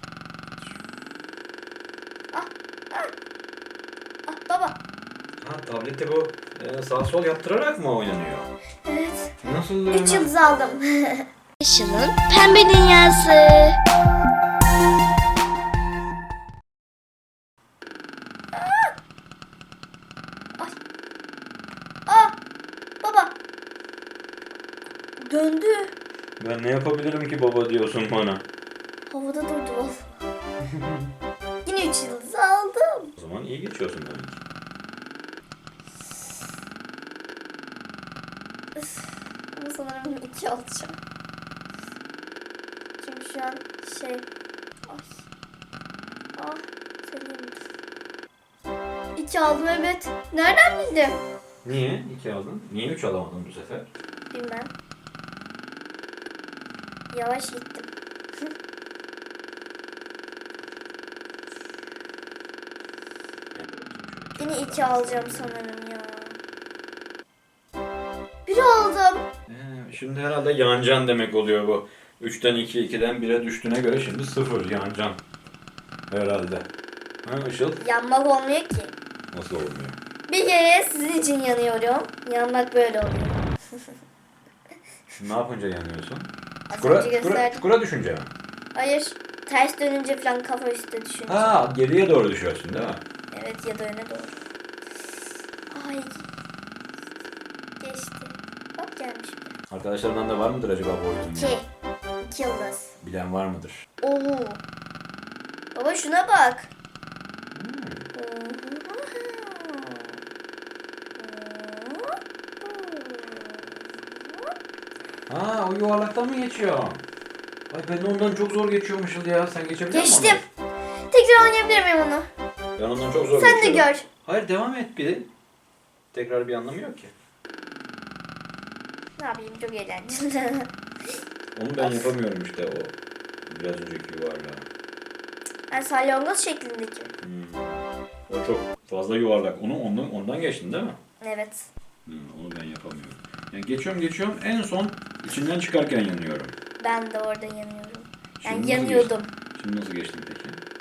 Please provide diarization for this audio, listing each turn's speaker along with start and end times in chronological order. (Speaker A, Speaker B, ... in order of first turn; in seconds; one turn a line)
Speaker A: 2.3-3.1
Speaker A: 4.3-4.8
Speaker B: 5.4-8.5
Speaker A: 8.8-9.3
Speaker B: 9.4-10.3
Speaker A: 9.9-13.8
Speaker A: 18.5-18.9
Speaker A: 22.1-22.4
Speaker A: 23.0-23.3
Speaker A: 25.2-25.9
Speaker B: 26.4-28.4
Speaker A: 29.1-30.2
Speaker B: 30.6-31.1
Speaker A: 31.6-33.1
Speaker B: 33.2-34.4
Speaker A: 38.8-41.0
Speaker A: 43.0-44.2
Speaker A: 44.9-45.2
Speaker A: 46.4-47.6
Speaker A: 49.1-51.2
Speaker B: 51.6-53.9
Speaker A: 54.3-54.7
Speaker A: 57.1-57.9
Speaker B: 63.5-65.5
Speaker A: 64.4-66.4
Speaker A: 68.5-69.2
Speaker B: 69.5-75.2
Speaker B: 76.1-76.7
Speaker B: 77.2-77.8
Speaker A: 77.8-78.9
Speaker B: 79.3-80.0
Speaker A: 80.3-83.4
Speaker B: 85.2-88.3
Speaker A: 86.7-87.6
Speaker A: 88.7-91.6
Speaker B: 91.3-93.0
Speaker A: 93.3-94.4
Speaker A: 95.7-96.3
Speaker A: 97.8-99.5
Speaker B: 99.7-101.6
Speaker A: 101.3-101.6
Speaker A: 102.2-102.9
Speaker B: 103.0-103.8
Speaker A: 104.0-104.6
Speaker A: 105.7-106.7
Speaker B: 107.5-108.1
Speaker A: 108.1-110.1
Speaker A: 111.2-114.5
Speaker B: 115.3-117.0
Speaker B: 117.7-120.4
Speaker A: 119.9-120.4
Speaker A: 121.1-122.3
Speaker B: 122.8-125.3
Speaker A: 123.3-124.0
Speaker B: 126.1-127.1
Speaker A: 129.2-130.7
Speaker B: 131.5-132.9
Speaker A: 131.8-132.1
Speaker B: 133.5-134.6
Speaker A: 135.7-137.1
Speaker B: 137.2-141.0
Speaker A: 141.2-141.7
Speaker B: 142.1-146.5
Speaker A: 146.8-149.3
Speaker B: 148.4-150.6